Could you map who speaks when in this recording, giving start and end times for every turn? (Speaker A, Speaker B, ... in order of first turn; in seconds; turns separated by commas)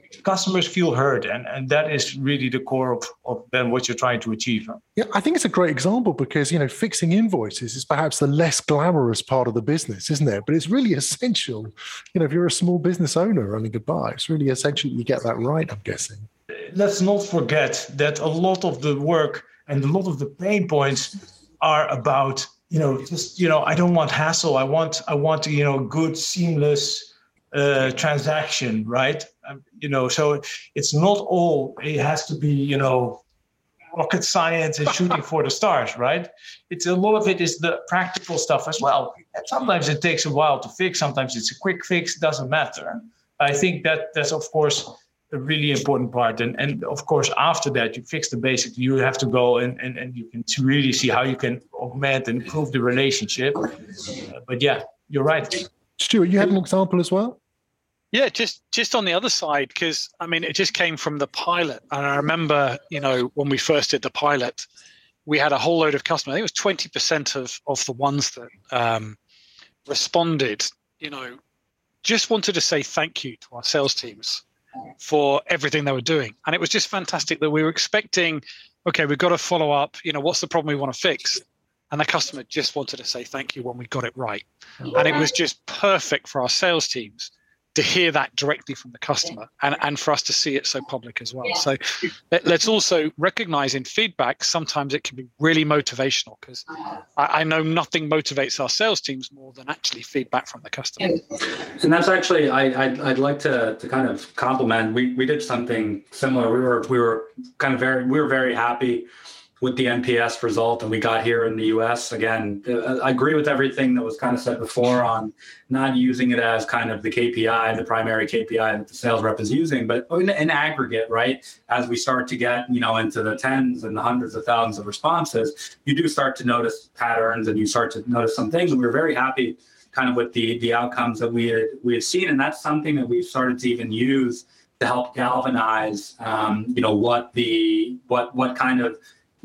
Speaker A: 0.2-4.8, Speaker B: 5.0-16.3, Speaker A: 16.5-33.2, Speaker A: 33.9-55.7, Speaker B: 56.0-57.4, Speaker C: 58.1-64.7, Speaker C: 65.2-69.2, Speaker C: 69.9-71.4, Speaker C: 72.0-74.4, Speaker C: 75.0-91.8, Speaker C: 92.3-96.7, Speaker C: 97.2-101.2, Speaker D: 101.8-109.1, Speaker D: 109.6-139.0